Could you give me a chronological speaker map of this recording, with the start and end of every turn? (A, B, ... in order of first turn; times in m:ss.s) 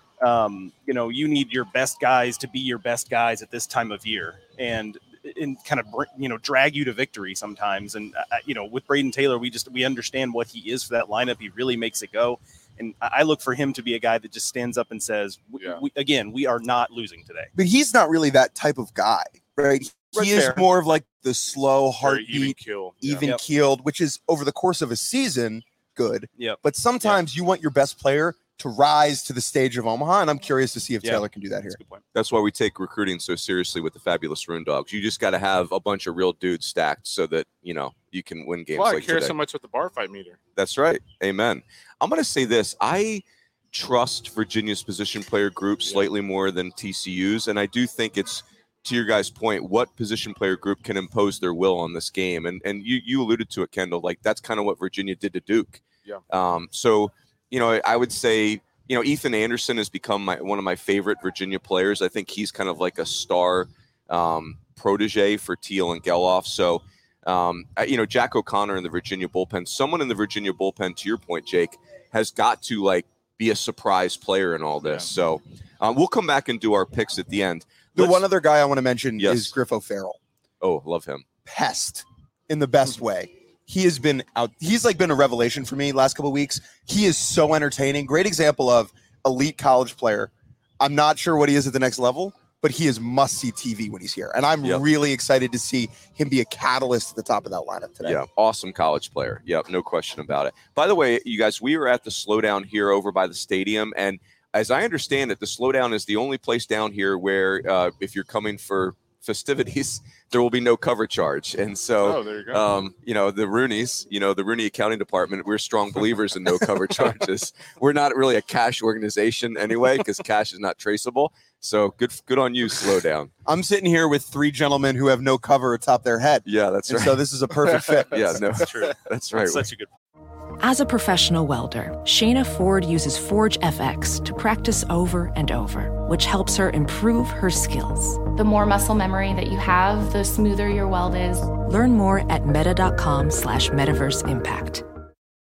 0:00.2-0:17.5 A
0:17.5-0:31.8 B
0:20.1-0:20.7 A
0:22.0-0:23.3 C
0:26.3-0:27.2 A
0:31.0-0:32.0 A
0:32.1-0:39.4 D
0:38.7-0:40.4 C
0:40.6-1:18.2 D
0:45.8-0:46.1 C
1:17.9-1:20.2 B
1:19.2-1:19.6 D
1:20.6-1:21.2 D
1:21.4-1:38.2 B
1:38.0-2:03.3 D
1:52.0-1:52.7 C
2:03.4-2:08.2 B
2:06.4-2:07.2 D
2:07.7-2:09.9 A
2:08.1-2:09.6 D
2:10.6-2:18.3 E
2:18.4-2:21.6 F
2:21.6-2:24.8 E